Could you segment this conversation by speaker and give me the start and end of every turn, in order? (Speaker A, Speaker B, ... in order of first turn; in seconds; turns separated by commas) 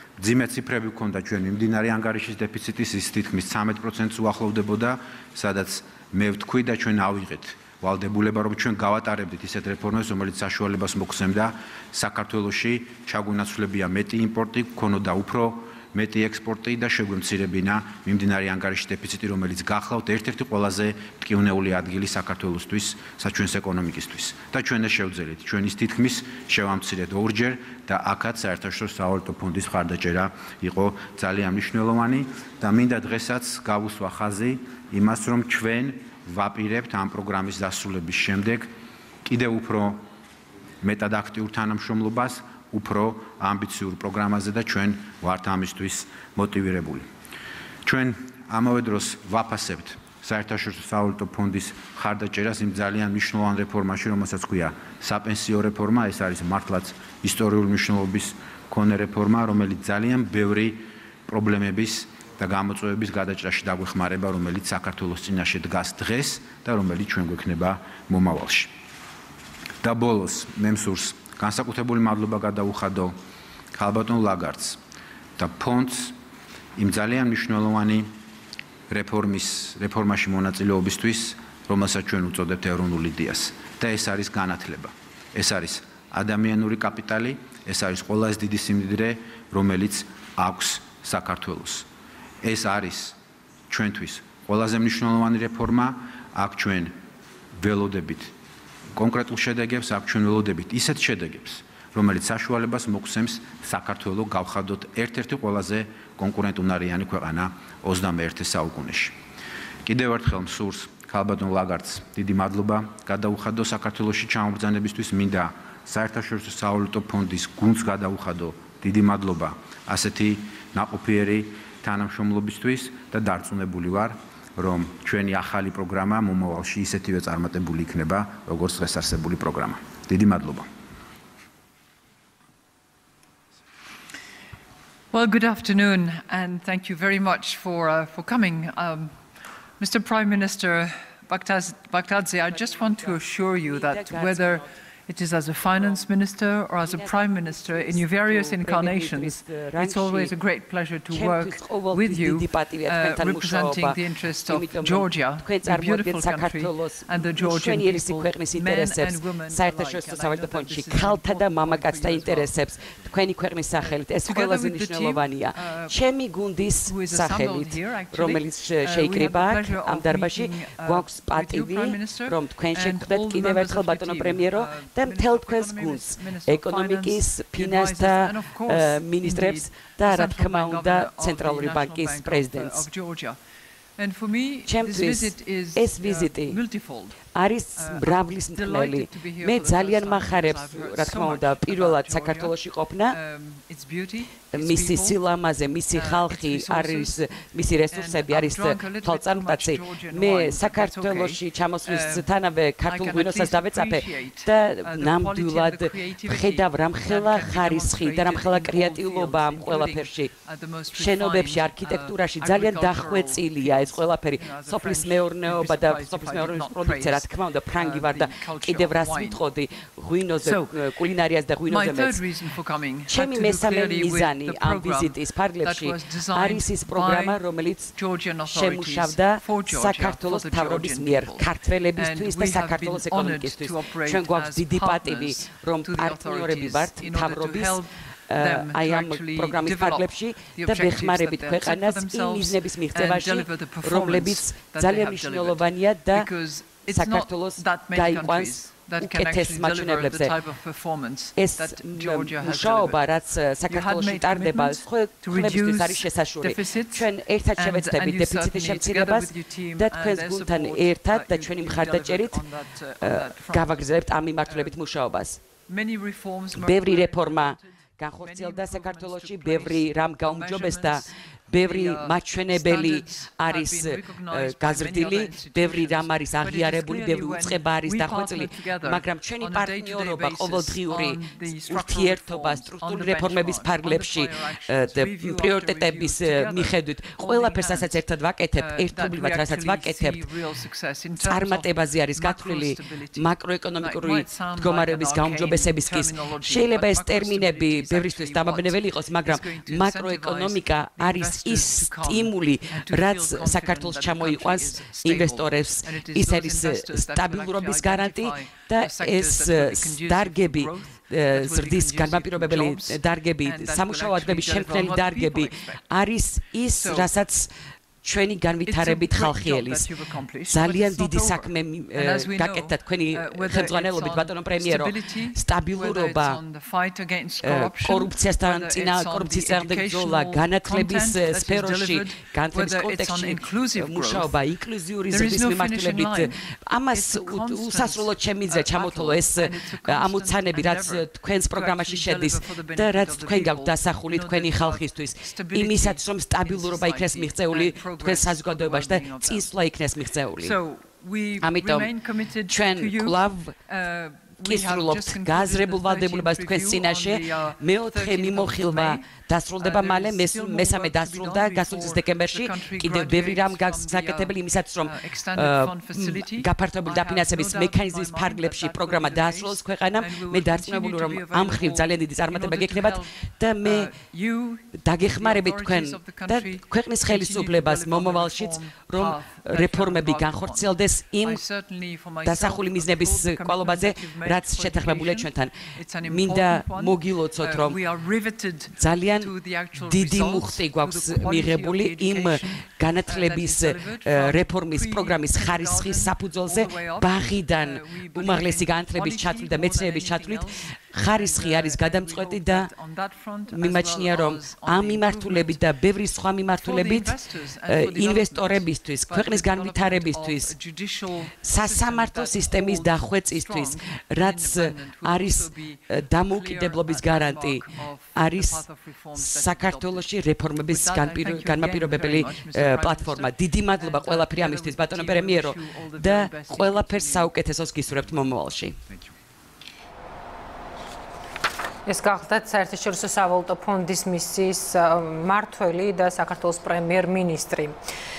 Speaker A: 0.2-38.7, Speaker A: 39.2-40.0, Speaker A: 40.8-47.1, Speaker A: 47.8-68.7, Speaker A: 69.8-73.2, Speaker A: 73.7-74.8, Speaker A: 75.4-76.2, Speaker A: 76.8-78.1, Speaker A: 78.9-91.9, Speaker A: 92.4-93.2, Speaker A: 93.7-97.0, Speaker A: 97.5-98.3, Speaker A: 98.9-109.2, Speaker A: 109.8-130.7, Speaker B: 135.1-139.2, Speaker B: 139.8-163.2, Speaker C: 142.5-144.6, Speaker C: 146.8-150.3, Speaker C: 151.1-182.9, Speaker B: 163.8-166.0, Speaker B: 166.8-183.4, Speaker B: 184.0-195.2, Speaker C: 184.7-186.6, Speaker C: 187.3-193.2, Speaker C: 194.5-210.3, Speaker B: 195.9-219.4, Speaker C: 210.9-222.3, Speaker B: 220.4-221.0, Speaker B: 221.6-237.9, Speaker C: 223.1-227.9, Speaker C: 228.5-246.3, Speaker B: 238.4-253.1, Speaker C: 246.8-250.3, Speaker C: 251.3-262.4, Speaker B: 253.6-264.8, Speaker C: 263.0-265.4, Speaker B: 265.6-271.1, Speaker C: 266.5-290.3, Speaker B: 271.6-317.2, Speaker C: 291.2-317.5, Speaker C: 318.0-319.9, Speaker B: 318.6-334.5, Speaker C: 320.5-326.4, Speaker C: 327.4-350.6, Speaker B: 335.1-349.6, Speaker B: 350.4-405.8, Speaker C: 351.4-351.9, Speaker C: 352.5-353.5, Speaker C: 354.4-373.9, Speaker C: 374.8-381.4, Speaker C: 382.2-387.8, Speaker C: 388.8-402.7, Speaker C: 403.5-410.5, Speaker B: 406.5-429.1, Speaker C: 411.4-428.8, Speaker D: 431.9-437.7